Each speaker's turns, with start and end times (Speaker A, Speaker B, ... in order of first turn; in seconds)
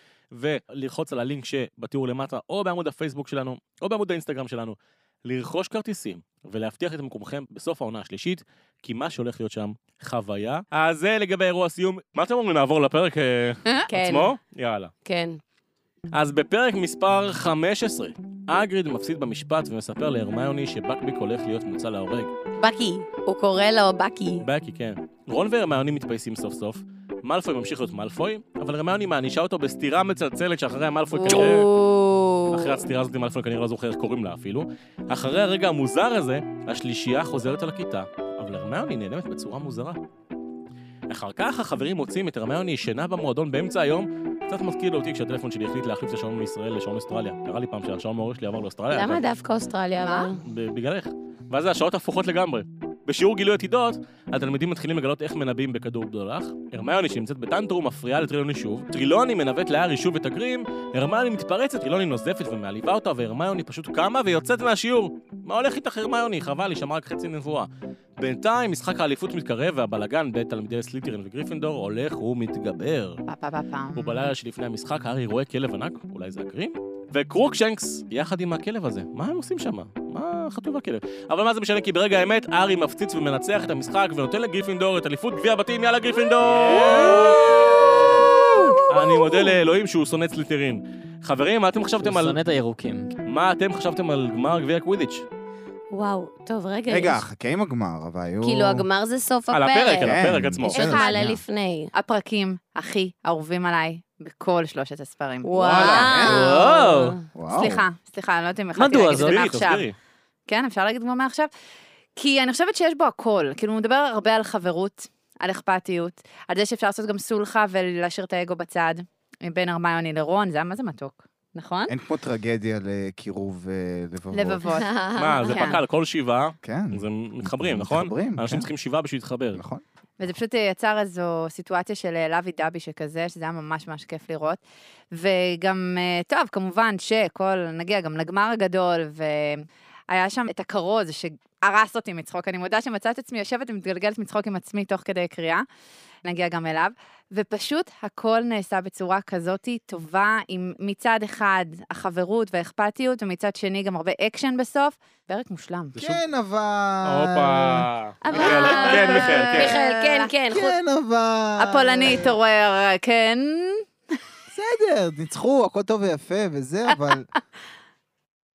Speaker A: 0.3-14.9, 16.1-22.3, 24.4-31.7, 32.5-40.0, 41.1-49.2, 50.4-73.2, 73.9-88.2, 88.8-92.4, 93.2-95.2, 99.5-100.8, 105.6-106.2, 108.9-110.0, 125.1-129.6, 155.9-156.2, 157.1-159.7
Speaker B: 13.9-14.3, 15.1-15.4, 22.6-24.4, 31.2-32.8, 48.9-50.4, 86.7-89.4, 95.9-97.2, 98.4-101.9, 105.4-107.2, 124.7-125.6, 158.4-160.8
Speaker C: 31.2-31.5, 50.0-50.3, 73.3-74.3, 100.7-101.2, 101.9-105.5, 107.5-109.9, 110.5-111.5, 112.2-121.9, 124.3-125.8, 130.2-145.7, 146.2-155.9, 158.2-160.3, 161.6-163.8
Speaker D: 87.0-87.3, 92.0-93.1, 105.5-107.2, 108.8-109.6
Speaker E: 96.9-98.8, 100.0-101.4, 105.8-106.5, 107.3-107.8, 121.9-124.6, 126.6-128.7, 129.5-129.8, 155.9-158.7, 160.5-162.3, 164.5-167.3